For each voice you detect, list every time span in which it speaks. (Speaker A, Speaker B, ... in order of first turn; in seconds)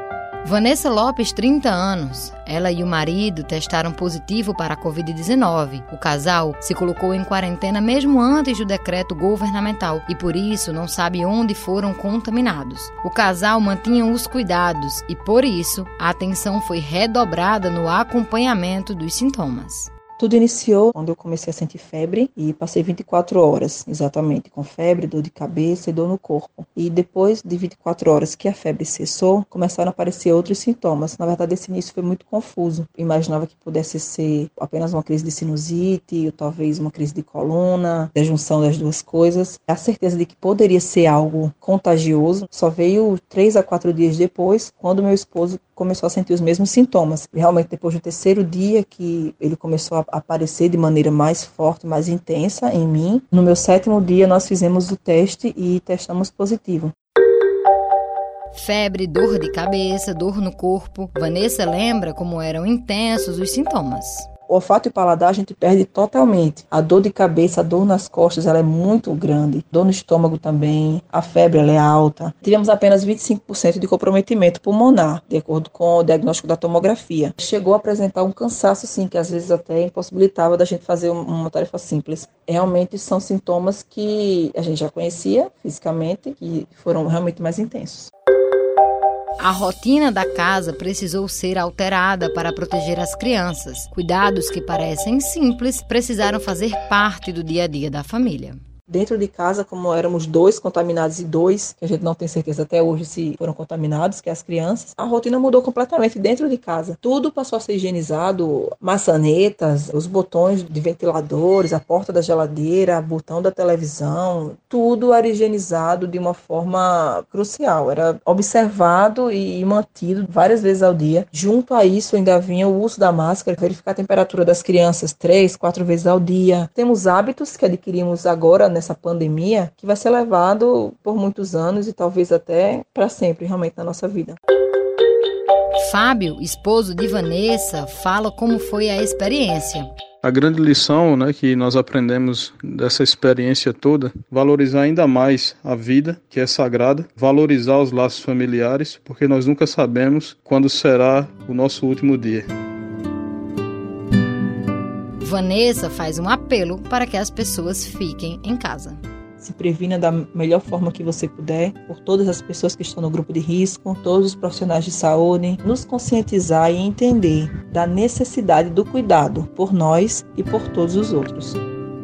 Speaker A: 0.4-19.9, 58.5-64.3, 89.4-98.6, 135.8-139.9, 155.2-159.0
Speaker B: 20.2-56.9, 64.5-88.1, 98.9-134.4, 159.4-171.6
Speaker C: 140.2-152.5